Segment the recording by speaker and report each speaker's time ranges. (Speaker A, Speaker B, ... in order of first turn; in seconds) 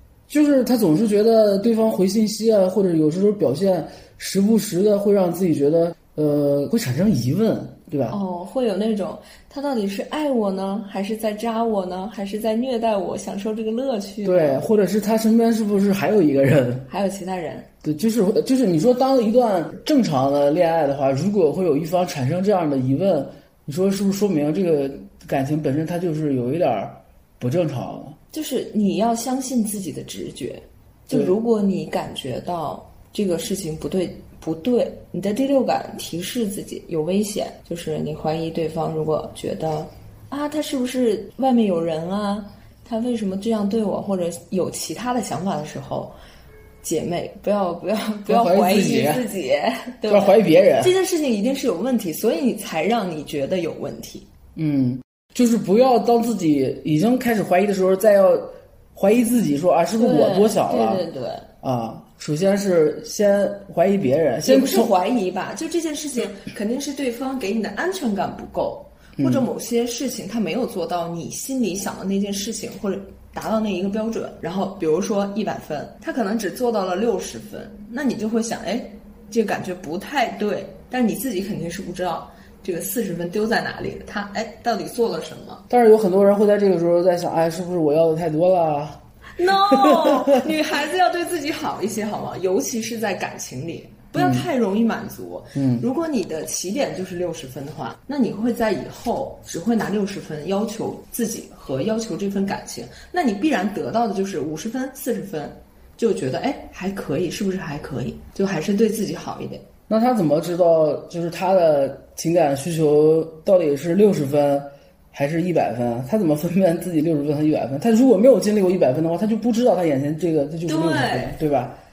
Speaker A: 0.3-8.2, 14.2-16.9, 17.8-28.2, 48.2-49.2, 50.1-50.9, 54.5-61.0, 61.6-64.9, 69.2-69.5, 85.7-90.4, 94.1-94.5, 95.5-95.8, 109.9-121.8
Speaker B: 8.1-14.6, 16.9-17.7, 28.3-46.1, 46.8-54.3, 60.0-61.5, 64.4-85.7, 89.4-109.6, 120.7-121.4